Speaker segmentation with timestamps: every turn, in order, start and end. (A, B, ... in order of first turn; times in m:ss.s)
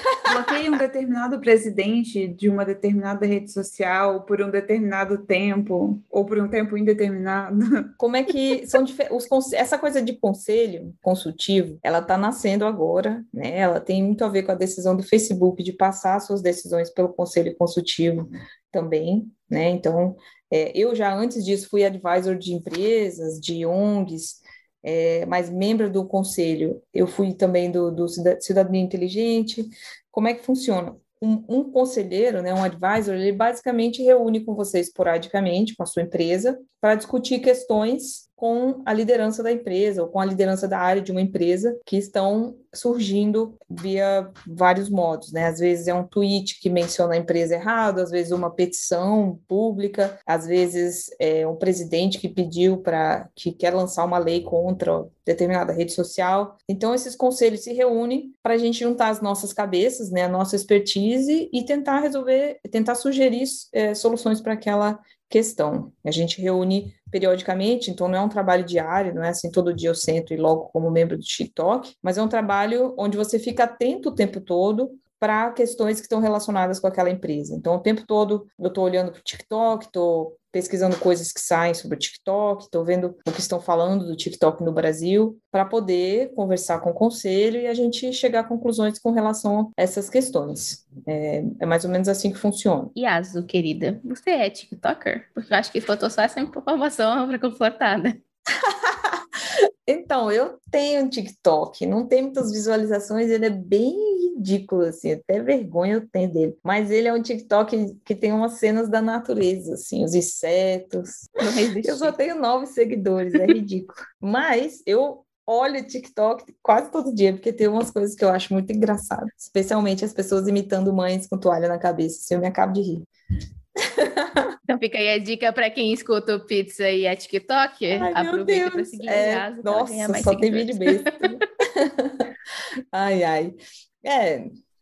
0:00.2-0:07.9 A
0:08.0-1:32.9 B
1:33.0-1:38.2 C
1:38.6-1:51.3 B
1:51.4-1:52.1 C
1:51.8-2:03.1 B
2:03.8-2:04.6 B
2:04.7-2:11.4 C
2:07.9-2:12.3 B
2:12.9-2:14.5 B